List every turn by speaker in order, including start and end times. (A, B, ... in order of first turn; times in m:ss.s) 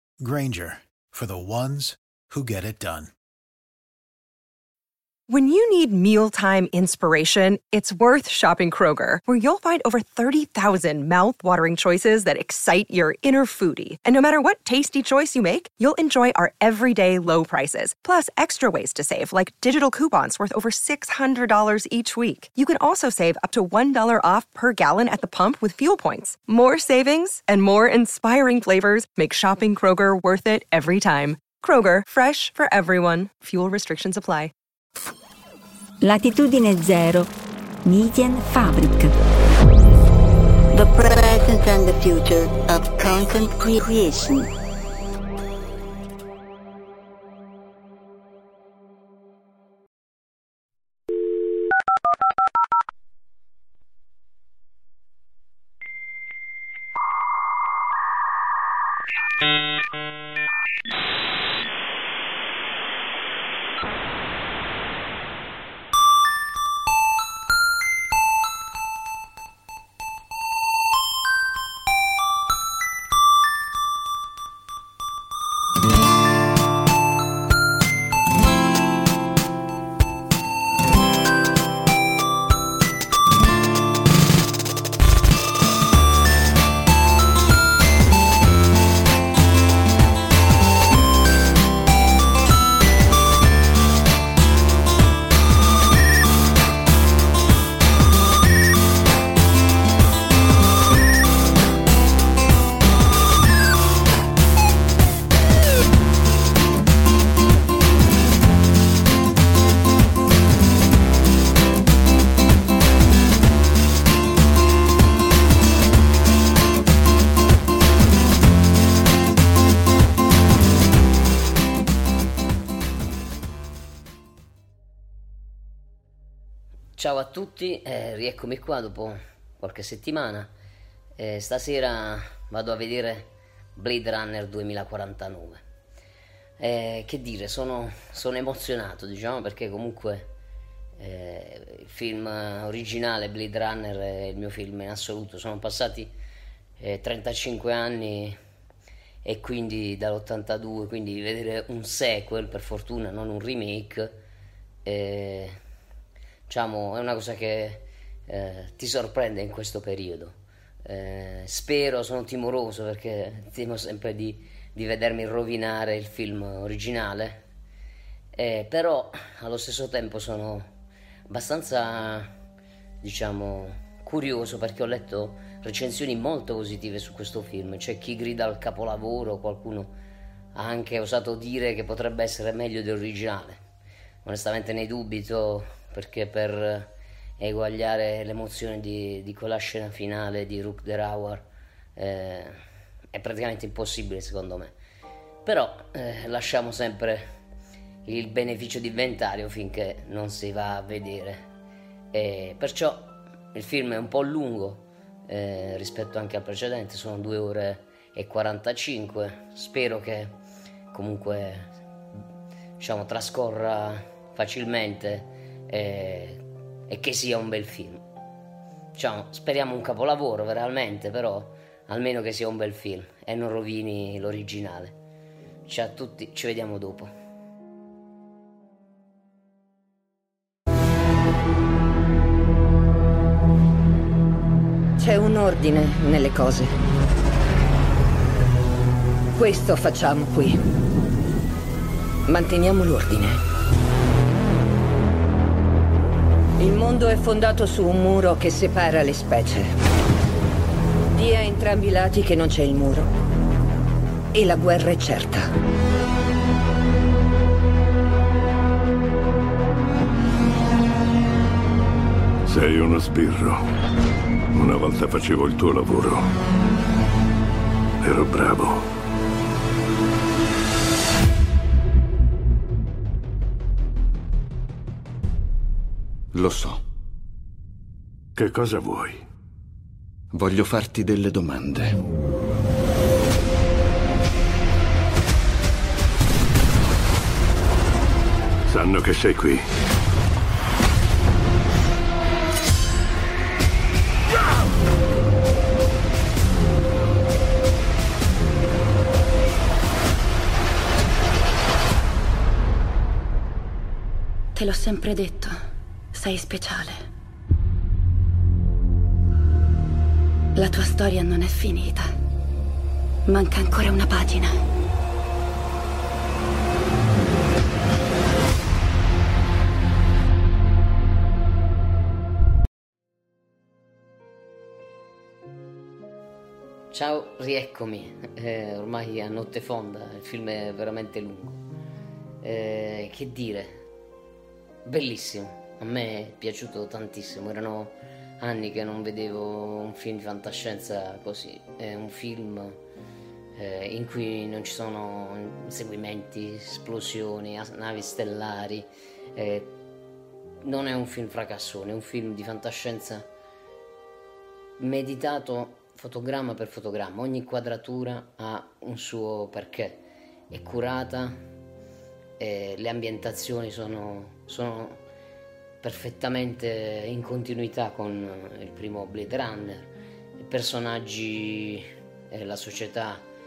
0:00.2-0:03.1 A
0:05.3-0:34.5 B
0:36.0-0:37.3 C
0:37.8-0:39.1 C
0:40.7-0:44.1 D
0:43.8-0:44.5 C
2:07.0-2:10.5 E
2:11.2-2:15.6 E
2:16.6-2:20.3 E
2:21.0-2:26.1 E
2:26.8-2:28.4 E
2:29.2-2:34.2 E
2:34.8-2:35.6 E
2:36.5-2:47.4 E
2:48.4-2:50.7 E
2:51.3-2:52.3 E
2:53.0-2:59.9 E
3:00.5-3:03.6 E
3:04.2-3:11.4 E
3:12.0-3:12.6 E
3:13.1-3:14.7 E
3:15.4-3:17.3 E
3:18.0-3:21.4 E
3:22.1-3:30.4 E
3:30.9-3:31.7 E
3:32.8-3:38.0 E
3:38.9-3:44.9 E
3:45.7-3:47.1 E
3:55.0-3:56.7 F
3:59.5-4:00.6 F
4:02.4-4:03.2 F
4:06.7-4:09.6 F
4:11.2-4:13.1 F
4:14.5-4:15.3 F
4:22.4-4:23.6 G
4:24.5-4:26.3 G
4:28.0-4:28.8 G
4:36.3-4:36.8 H
4:38.4-4:39.2 G
4:40.3-4:42.0 H
4:48.7-4:49.7 G
5:04.5-5:07.1 I
5:10.6-5:12.1 I
5:13.2-5:14.6 I
5:26.9-5:31.6 E
5:32.4-5:33.8 E
5:34.8-5:42.8 E
5:43.6-5:49.7 E
5:50.6-5:53.3 E
5:54.8-6:01.4 E
6:02.4-6:05.0 E
6:05.8-6:09.9 E
6:10.4-6:13.2 E